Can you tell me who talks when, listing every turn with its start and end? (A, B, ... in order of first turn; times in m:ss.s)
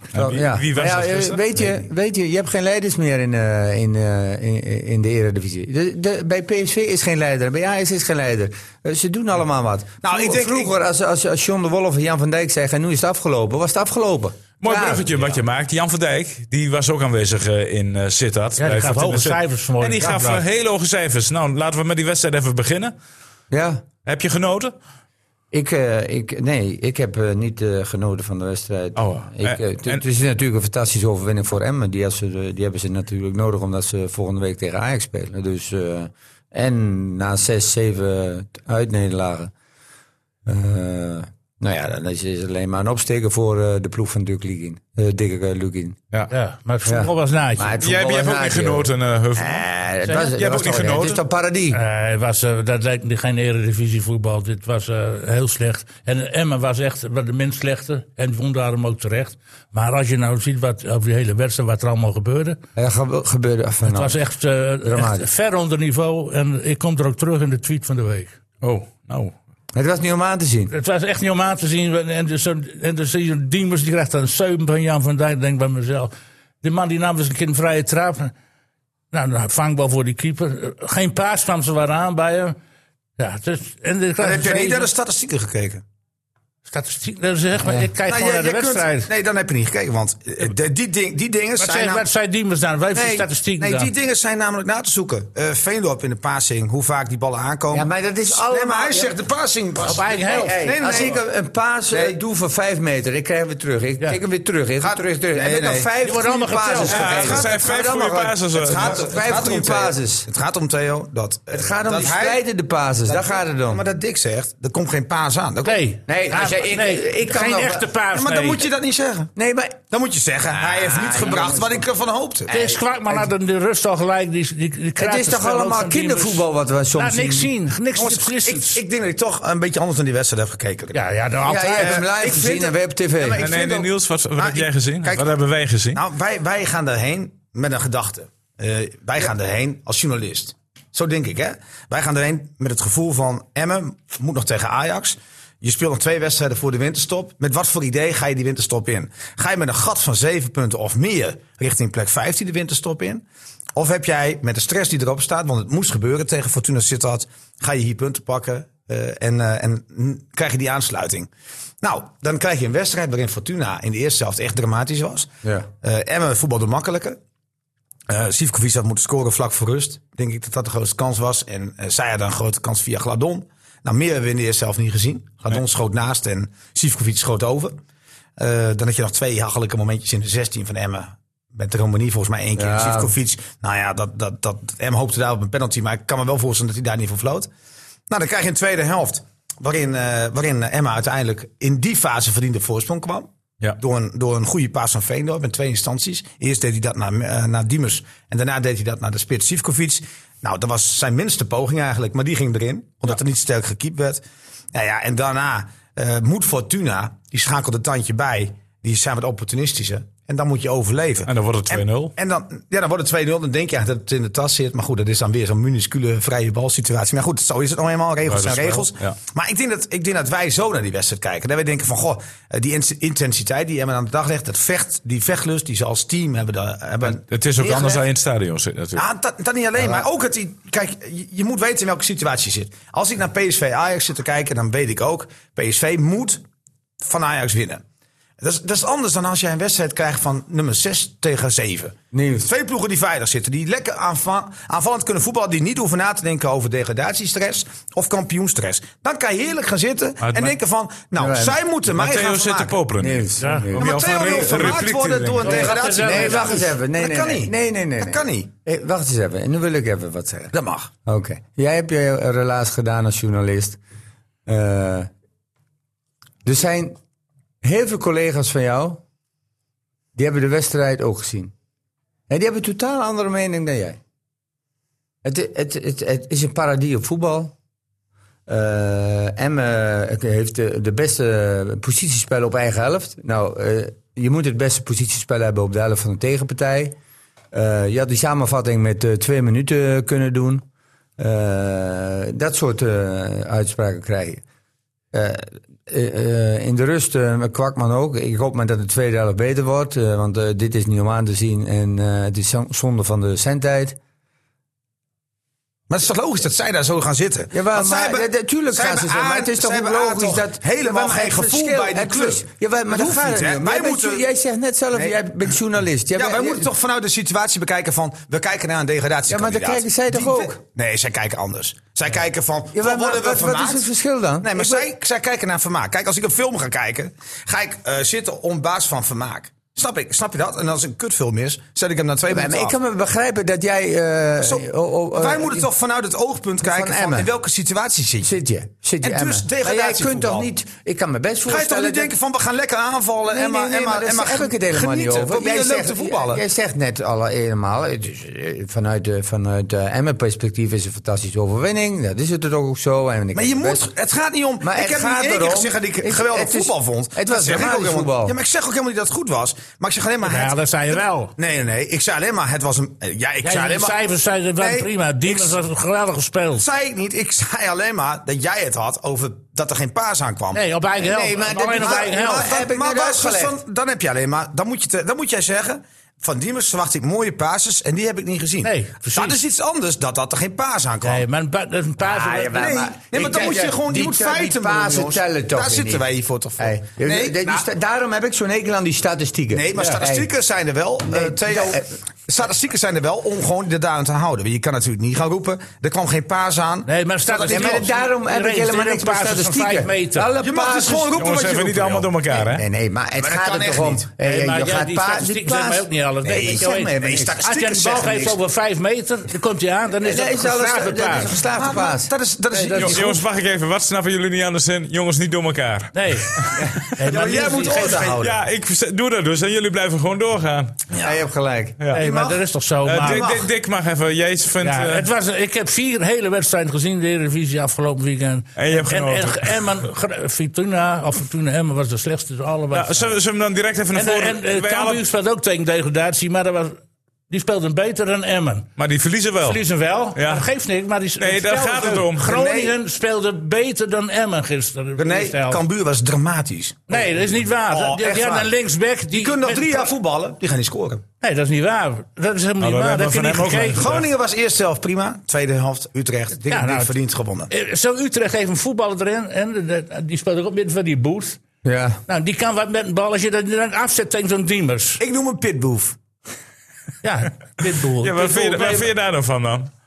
0:00.1-0:01.7 A
0:00.1-0:15.2 B
0:10.0-0:10.7 C
0:14.6-0:22.9 A
0:18.6-0:20.4 D
0:23.5-0:23.8 B
0:24.1-0:24.7 A
0:25.5-0:39.5 B
0:29.0-0:30.0 A
0:40.4-0:46.0 B
0:46.3-0:47.7 D
0:46.8-0:51.8 B
0:47.8-0:51.2 A
0:50.0-0:50.3 D
0:51.7-1:02.6 D
1:02.8-1:04.2 B
1:03.8-1:08.3 D
1:04.8-1:05.3 B
1:08.6-1:09.3 A
1:09.8-1:10.7 B
1:10.7-1:18.3 D
1:19.1-1:22.6 D
1:23.2-1:24.9 D
1:24.2-1:25.8 C
1:26.6-1:29.1 D
1:27.6-1:27.9 B
1:28.1-1:32.0 C
1:31.6-1:33.9 D
1:32.9-1:41.2 C
1:37.7-1:39.1 B
1:39.8-1:40.6 D
1:40.3-1:50.2 B
1:41.9-1:42.2 C
1:44.8-1:47.6 C
1:46.0-1:47.3 D
1:46.9-1:49.0 A
1:48.6-1:52.4 C
1:51.5-1:53.8 B
1:53.1-1:55.8 C
1:55.6-1:58.6 D
1:56.1-1:57.9 B
1:58.1-1:59.3 C
1:59.4-1:59.8 B
1:59.9-2:02.7 C
2:00.5-2:01.9 B
2:02.5-2:08.8 D
2:05.0-2:07.5 B
2:07.9-2:11.0 C
2:10.9-2:12.1 D
2:11.4-2:13.5 B
2:11.8-2:15.2 C
2:13.4-2:16.0 A
2:15.9-2:33.2 C
2:33.7-2:41.3 C
2:41.8-2:45.3 C
2:45.8-2:47.2 C
2:48.1-2:57.8 C
2:58.4-3:07.5 C
3:02.6-3:03.1 B
3:08.1-3:24.2 C
3:24.7-3:48.0 C
3:31.2-3:32.1 A
3:38.3-3:39.2 A
3:47.0-3:49.1 A
3:49.0-3:56.4 C
3:57.0-3:57.8 C
3:58.4-4:12.8 C
4:02.1-4:02.5 B
4:10.2-4:10.6 A
4:11.2-4:11.6 B
4:11.9-4:15.7 A
4:13.0-4:14.4 B
4:13.4-4:13.7 D
4:13.8-4:18.5 C
4:15.4-4:16.7 D
4:15.7-4:20.5 B
4:20.5-4:20.9 C
4:21.1-4:23.8 B
4:24.5-4:25.1 B
4:26.4-4:27.0 B
4:27.6-4:29.0 B
4:30.2-4:31.5 B
4:32.3-4:34.0 B
4:35.2-4:37.5 B
4:38.5-4:47.0 B
4:47.5-4:50.6 B
4:51.2-4:54.4 B
4:55.1-5:04.0 B
5:05.9-5:14.2 C
5:07.5-5:16.7 B
5:16.2-5:23.8 C
5:19.3-5:20.6 B
5:22.7-5:24.9 B
5:24.4-5:32.8 C
5:32.3-5:35.7 B
5:34.4-5:38.3 C
5:36.6-5:37.3 B
5:38.2-5:42.1 B
5:39.0-5:40.5 C
5:41.4-5:46.4 C
5:43.3-5:53.9 B
5:53.3-6:04.0 C
5:54.6-5:58.4 B
6:00.2-6:01.3 D
6:03.4-6:06.6 D
6:04.6-6:05.6 C
6:06.6-6:10.6 C
6:10.5-6:12.5 D
6:11.0-6:13.6 B
6:11.5-6:21.2 C
6:18.6-6:19.4 D
6:21.0-6:22.7 D
6:22.0-6:26.0 B
6:22.4-6:27.7 C
6:26.6-6:30.3 B
6:29.5-6:37.9 C
6:29.7-6:30.0 D
6:31.1-6:31.9 B
6:36.8-6:40.3 D
6:37.4-6:41.2 B
6:40.4-6:42.1 C
6:41.2-6:42.6 A
6:42.3-6:47.4 B
6:43.2-6:44.1 C
6:44.2-6:51.3 D
6:46.2-6:48.4 C
6:50.0-6:52.9 B
6:51.4-6:53.2 C
6:52.5-6:52.9 D
6:52.8-6:56.6 A
6:55.9-6:58.2 D
6:57.1-6:58.4 C
6:58.2-7:00.9 A
7:01.0-7:01.8 B
7:01.9-7:03.2 D
7:01.9-7:02.4 C
7:02.8-7:05.1 A
7:03.0-7:03.5 C
7:04.6-7:13.2 D
7:08.6-7:09.7 A
7:12.7-7:15.0 A
7:13.9-7:18.7 D
7:18.8-7:19.6 A
7:19.4-7:25.6 D
7:20.2-7:20.4 A
7:21.2-7:22.3 A
7:22.2-7:22.7 C
7:25.0-7:28.5 C
7:26.9-7:29.9 D
7:29.1-7:31.0 C
7:31.2-7:34.0 D
7:32.6-7:34.0 A
7:33.7-7:37.5 C
7:36.5-7:36.9 D
7:37.5-7:41.4 D
7:41.6-7:42.0 B
7:42.1-7:45.0 D
7:45.0-7:46.0 C
7:47.0-7:48.9 D
7:48.0-7:49.7 A